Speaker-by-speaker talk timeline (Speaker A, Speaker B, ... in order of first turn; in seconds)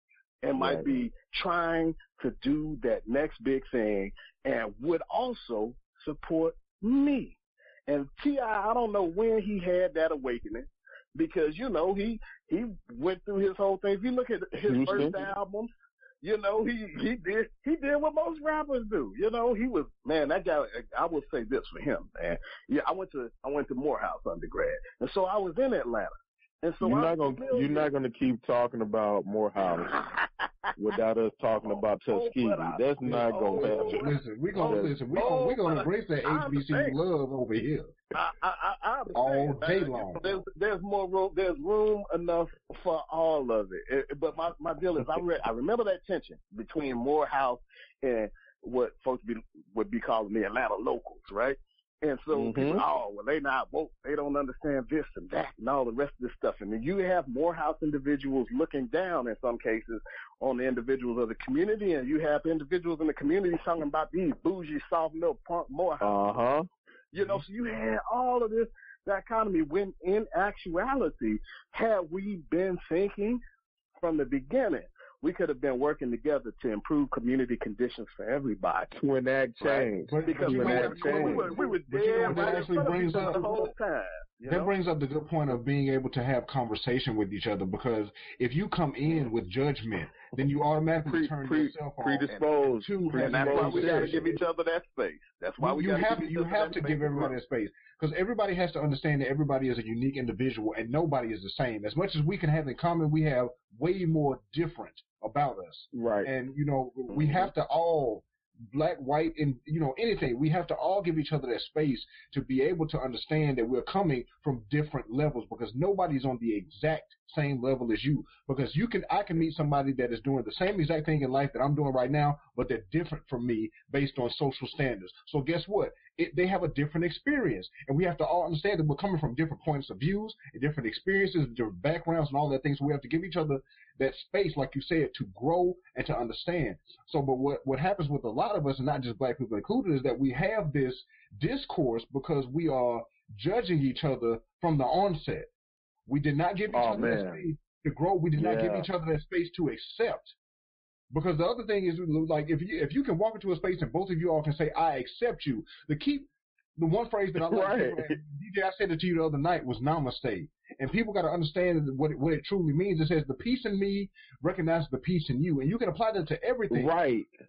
Speaker A: 0.4-15.7, 16.2-27.9, 29.6-30.7, 31.6-37.0, 38.1-66.2, 67.1-73.4, 74.0-78.9, 79.6-84.7, 93.1-97.3, 107.1-107.4
Speaker B: 0.6-1.1, 14.7-15.2, 26.8-29.9, 30.8-34.1, 34.6-35.0, 52.3-52.8, 66.0-66.7, 78.9-81.6, 82.2-82.6, 91.0-94.4, 105.9-106.3, 146.7-147.4, 148.4-148.9, 157.4-158.2, 166.7-167.3
Speaker C: 33.0-38.0, 39.1-40.4, 80.0-83.6, 84.5-94.3, 95.6-145.5, 146.1-150.4, 151.1-166.9